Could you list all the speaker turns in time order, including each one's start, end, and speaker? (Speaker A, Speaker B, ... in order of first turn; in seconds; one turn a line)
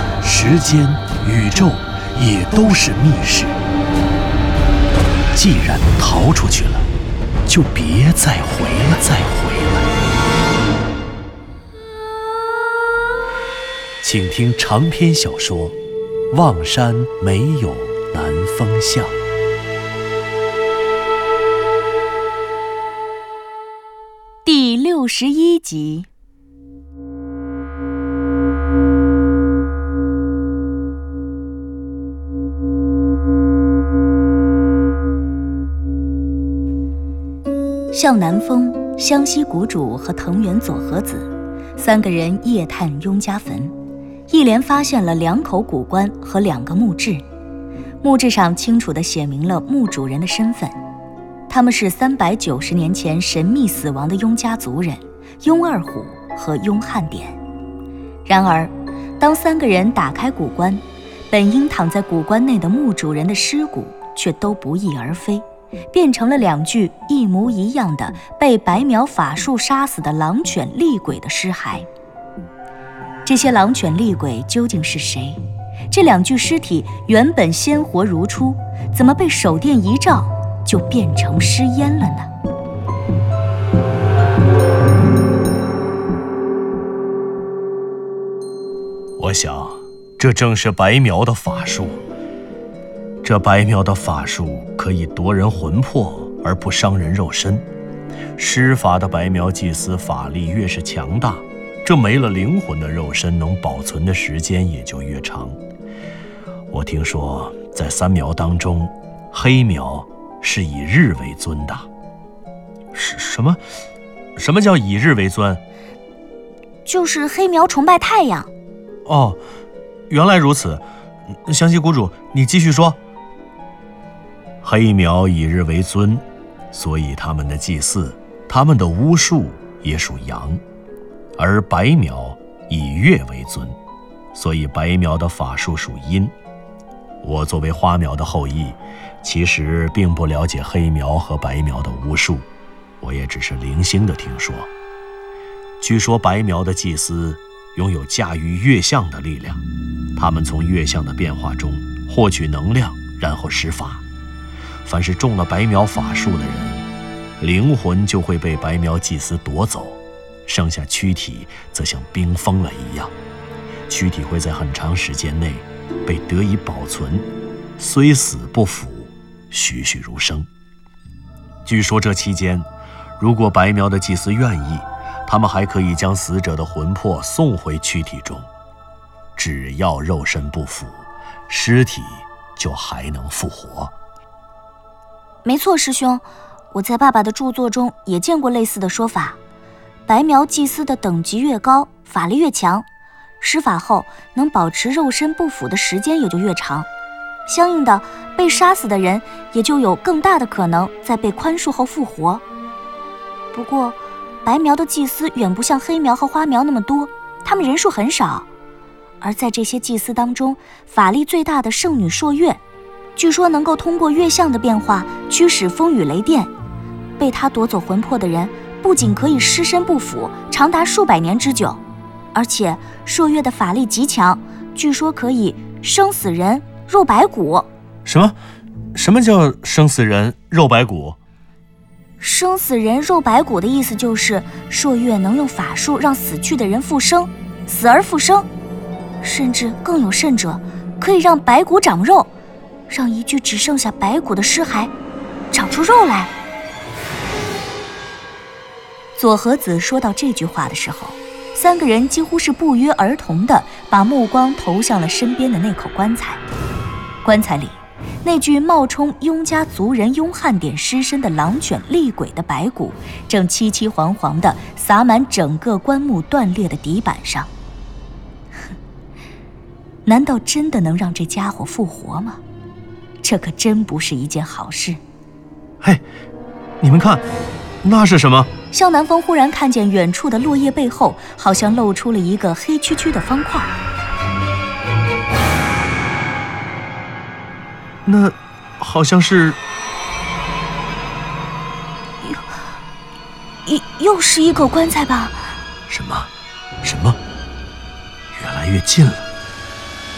Speaker A: 0.2-3.6
Speaker A: 5.3-6.9
Speaker A: 7.5-9.9
Speaker A: 14.0-15.8
Speaker A: 16.3-19.2
Speaker B: 24.4-26.1
Speaker B: 37.9-43.7
Speaker B: 44.3-47.2
Speaker B: 48.0-50.8
Speaker B: 51.5-57.4
Speaker B: 58.3-71.9
Speaker B: 73.3-75.4
Speaker B: 75.9-82.3
Speaker A: 89.2-92.0
Speaker A: 93.2-97.7
Speaker A: 98.4-105.6
Speaker A: 106.7-111.9
Speaker A: 112.9-113.6
Speaker A: 114.4-115.6
Speaker B: 116.9-118.5
Speaker A: 119.1-119.4
Speaker A: 120.1-123.0
Speaker A: 124.6-130.6
Speaker A: 131.4-133.8
Speaker A: 134.3-136.3
Speaker A: 137.2-142.5
Speaker A: 143.0-144.7
Speaker A: 145.8-149.6
Speaker A: 150.2-154.0
Speaker A: 154.8-156.8
Speaker A: 157.4-163.1
Speaker A: 163.9-167.3
Speaker A: 167.8-170.5
Speaker A: 171.7-172.7
Speaker A: 173.2-178.5
Speaker A: 179.4-183.9
Speaker B: 185.4-189.4
Speaker B: 190.1-192.9
Speaker B: 193.4-196.9
Speaker B: 197.5-202.4
Speaker B: 203.5-208.5
Speaker B: 209.2-212.6
Speaker B: 213.2-216.5
Speaker B: 217.2-221.8
Speaker B: 222.3-227.7
Speaker A: 228.1-228.4
Speaker A: 228.9-231.2
Speaker B: 232.2-238.5
Speaker B: 239.2-242.3
Speaker B: 242.9-244.9
Speaker B: 245.5-246.3
Speaker B: 249.2-256.4
Speaker B: 257.2-267.5
Speaker B: 270.1-272.4
Speaker B: 273.2-275.0
Speaker A: 276.8-277.2
Speaker A: 277.8-278.5
Speaker B: 278.7-283.8
Speaker A: 288.1-289.6
Speaker B: 292.2-292.5
Speaker B: 293.7-295.6
Speaker A: 295.9-296.3
Speaker A: 296.8-297.2
Speaker A: 298.3-299.3